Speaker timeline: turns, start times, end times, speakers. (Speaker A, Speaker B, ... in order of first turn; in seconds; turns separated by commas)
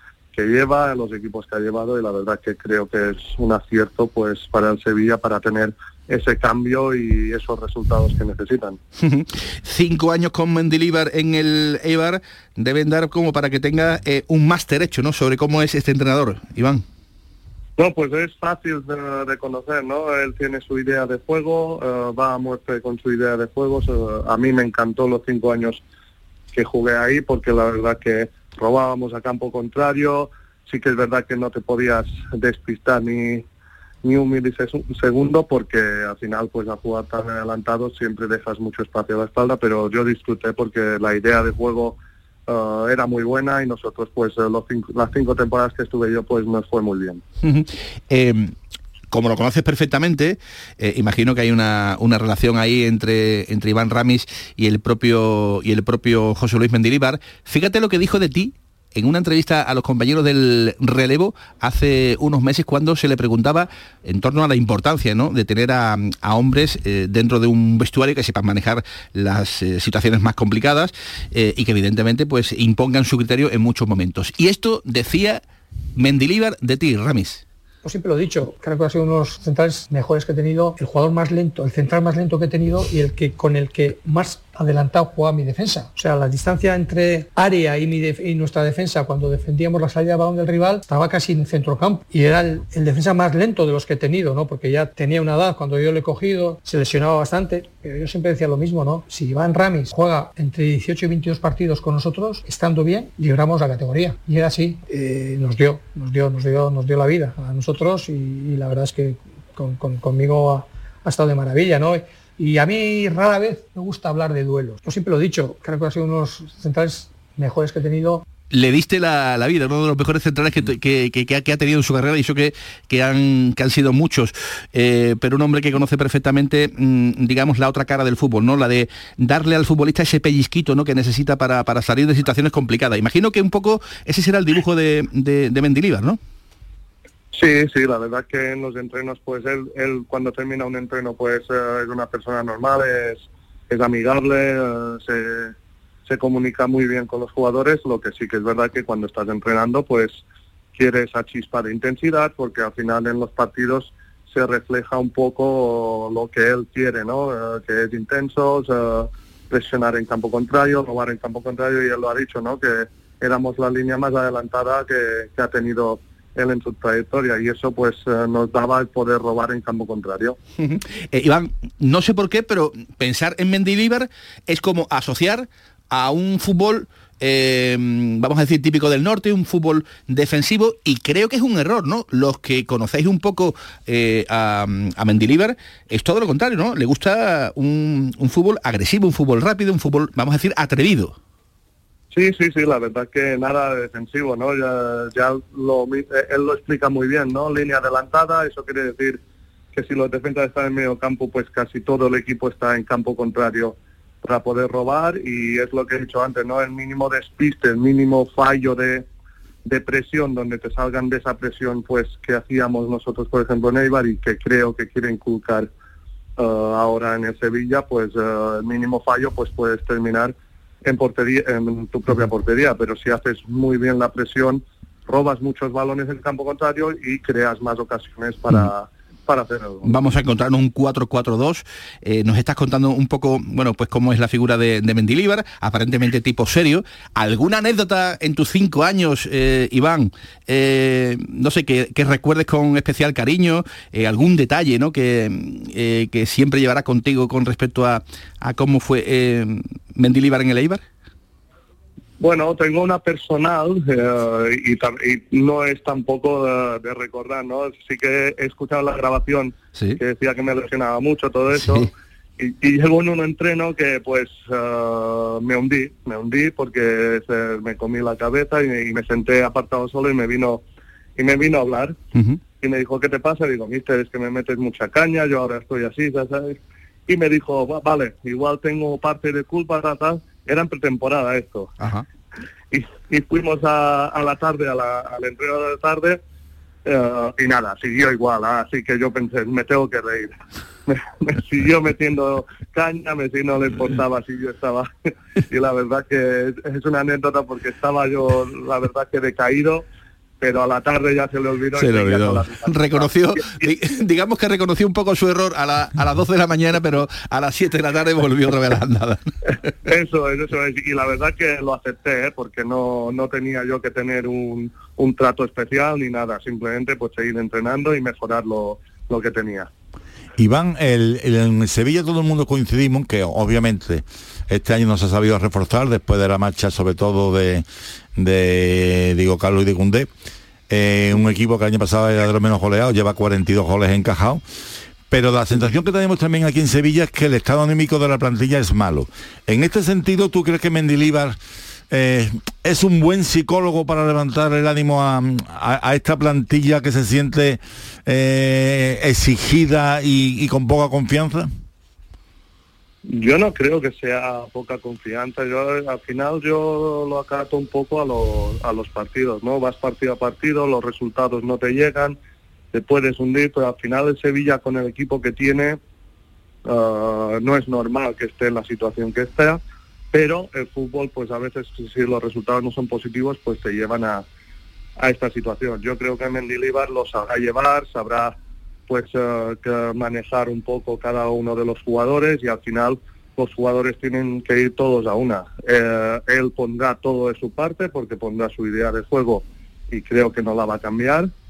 Speaker A: 0.3-8.8, Speaker B: 9.0-16.8, Speaker A: 17.8-25.8, Speaker A: 26.5-33.5, Speaker A: 34.0-47.2, Speaker B: 47.4-48.5, Speaker B: 49.1-75.4, Speaker B: 76.0-77.4, Speaker C: 77.8-118.2, Speaker B: 118.5-136.2, Speaker A: 137.3-145.6, Speaker A: 146.1-150.2, Speaker A: 150.8-170.4, Speaker B: 170.6-191.2, Speaker A: 192.1-199.2, Speaker A: 199.7-209.1, Speaker A: 209.7-215.7, Speaker A: 216.4-230.0, Speaker B: 229.8-250.8, Speaker A: 252.2-270.6, Speaker B: 259.8-260.0, Speaker B: 261.6-261.9, Speaker A: 271.2-272.0, Speaker B: 272.1-272.4, Speaker A: 272.6-281.8, Speaker A: 282.7-286.2, Speaker A: 286.9-290.4, Speaker A: 290.9-294.9, Speaker A: 295.5-299.9, Speaker A: 300.4-303.7, Speaker B: 301.8-309.3, Speaker A: 309.9-319.7, Speaker D: 320.4-327.6, Speaker D: 328.2-330.1, Speaker D: 330.7-334.4, Speaker D: 335.1-341.4, Speaker D: 341.9-351.5, Speaker A: 353.1-362.2, Speaker A: 362.7-365.8, Speaker A: 366.7-369.6, Speaker A: 370.1-374.2, Speaker A: 375.0-378.4, Speaker A: 378.9-391.3